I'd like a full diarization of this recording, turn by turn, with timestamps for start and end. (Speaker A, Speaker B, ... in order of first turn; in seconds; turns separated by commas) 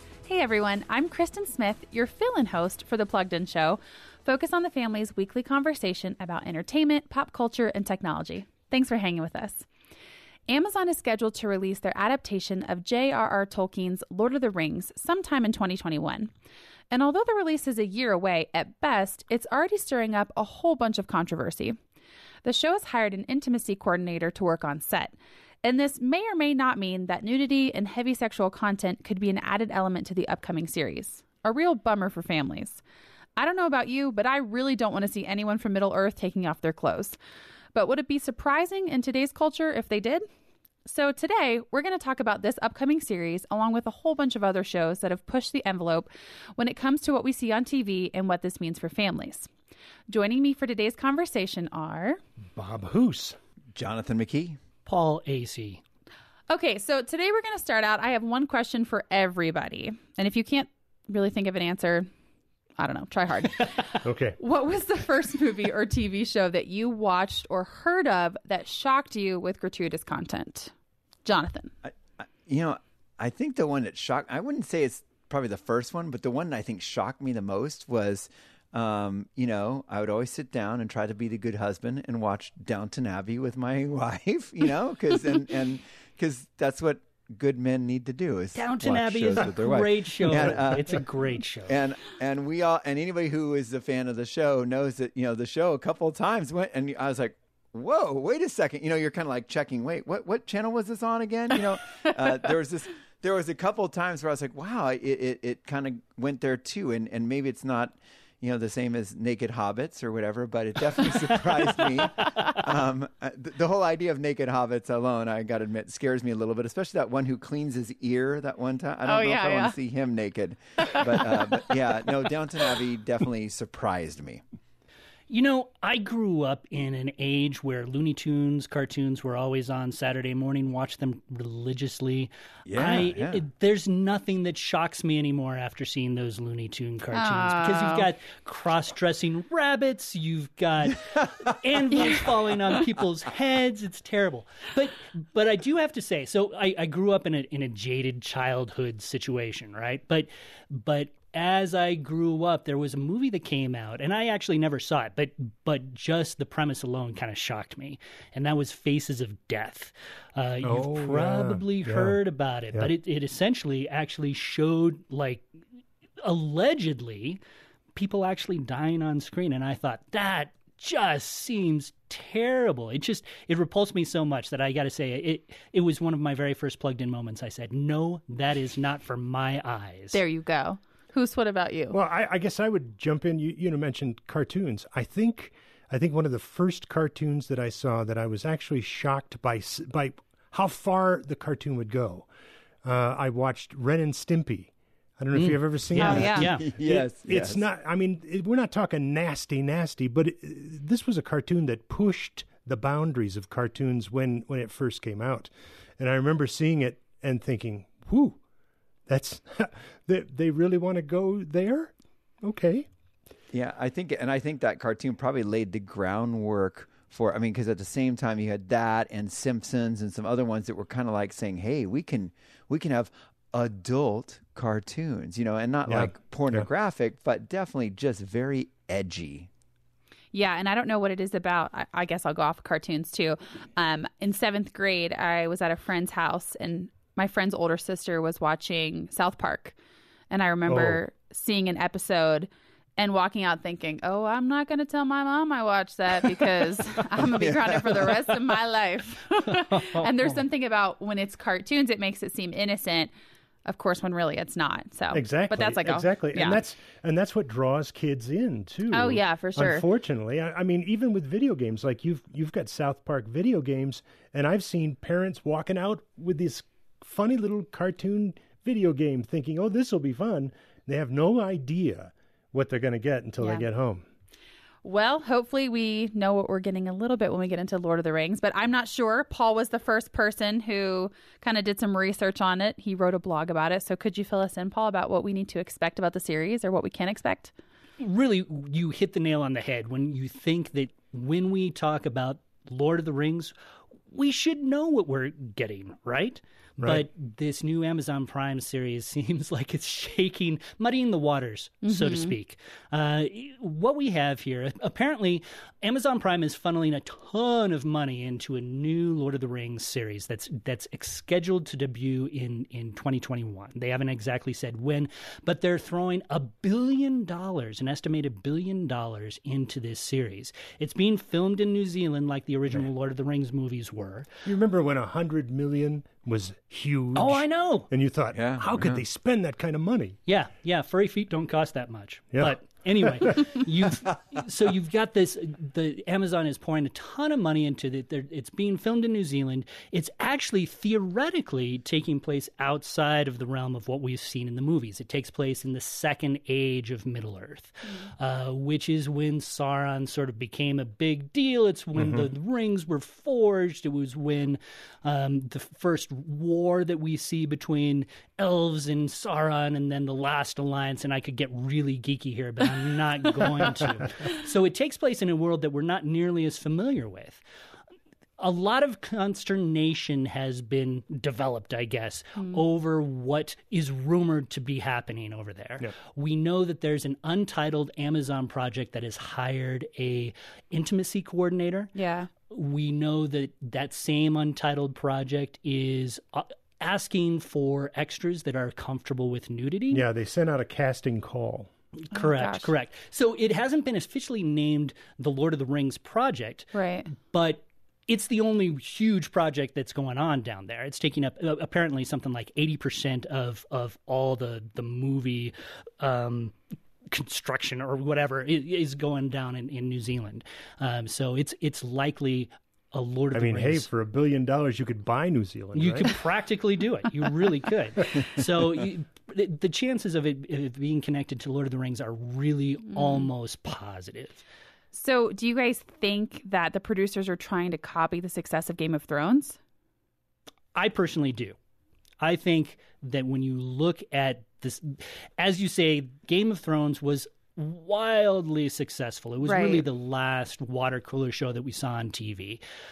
Speaker A: 0.2-9.7, Speaker A: 10.5-16.3, Speaker A: 16.9-21.8, Speaker A: 22.4-32.8, Speaker A: 33.4-37.2, Speaker A: 37.7-40.2, Speaker A: 40.9-49.5, Speaker A: 50.1-52.2, Speaker B: 52.5-53.4, Speaker C: 53.7-54.6, Speaker D: 54.9-55.8, Speaker A: 56.5-62.1, Speaker A: 62.8-70.7, Speaker B: 64.0-64.4, Speaker A: 71.2-71.7, Speaker C: 72.2-91.0, Speaker D: 88.5-91.7, Speaker C: 91.7-124.4, Speaker A: 119.0-119.8, Speaker A: 120.8-121.3, Speaker D: 125.3-165.4, Speaker C: 132.7-133.4, Speaker A: 137.1-138.0, Speaker B: 160.6-162.2, Speaker D: 166.2-167.4, Speaker D: 167.9-180.2, Speaker A: 180.1-181.9, Speaker B: 181.9-192.3, Speaker B: 192.8-208.4, Speaker D: 195.3-196.7, Speaker A: 196.0-196.5, Speaker C: 196.4-197.6, Speaker B: 209.1-212.9, Speaker C: 213.5-229.5, Speaker B: 225.9-226.7, Speaker A: 230.3-239.7, Speaker A: 240.3-253.1, Speaker B: 240.7-241.0, Speaker C: 247.2-248.2, Speaker D: 249.7-250.1, Speaker A: 253.7-256.6, Speaker B: 255.1-274.0, Speaker A: 258.9-259.8, Speaker A: 273.4-273.6, Speaker A: 274.8-287.5, Speaker D: 288.0-293.5, Speaker D: 294.1-324.3, Speaker B: 296.8-297.1, Speaker A: 301.8-302.3, Speaker B: 324.4-330.2, Speaker D: 327.1-327.9, Speaker C: 328.3-329.0, Speaker D: 330.2-367.4, Speaker B: 332.3-333.3, Speaker B: 352.0-352.3, Speaker D: 368.4-381.9, Speaker A: 372.4-372.6, Speaker A: 381.9-382.3, Speaker D: 382.5-390.0, Speaker B: 389.9-391.7, Speaker D: 392.0-396.7, Speaker A: 392.1-392.7, Speaker A: 396.7-397.1, Speaker D: 397.3-406.5, Speaker D: 407.1-413.9, Speaker B: 413.3-416.1, Speaker D: 415.7-424.4, Speaker A: 422.9-423.2, Speaker A: 424.9-429.6, Speaker D: 430.7-431.6, Speaker D: 432.2-442.6, Speaker A: 439.4-439.8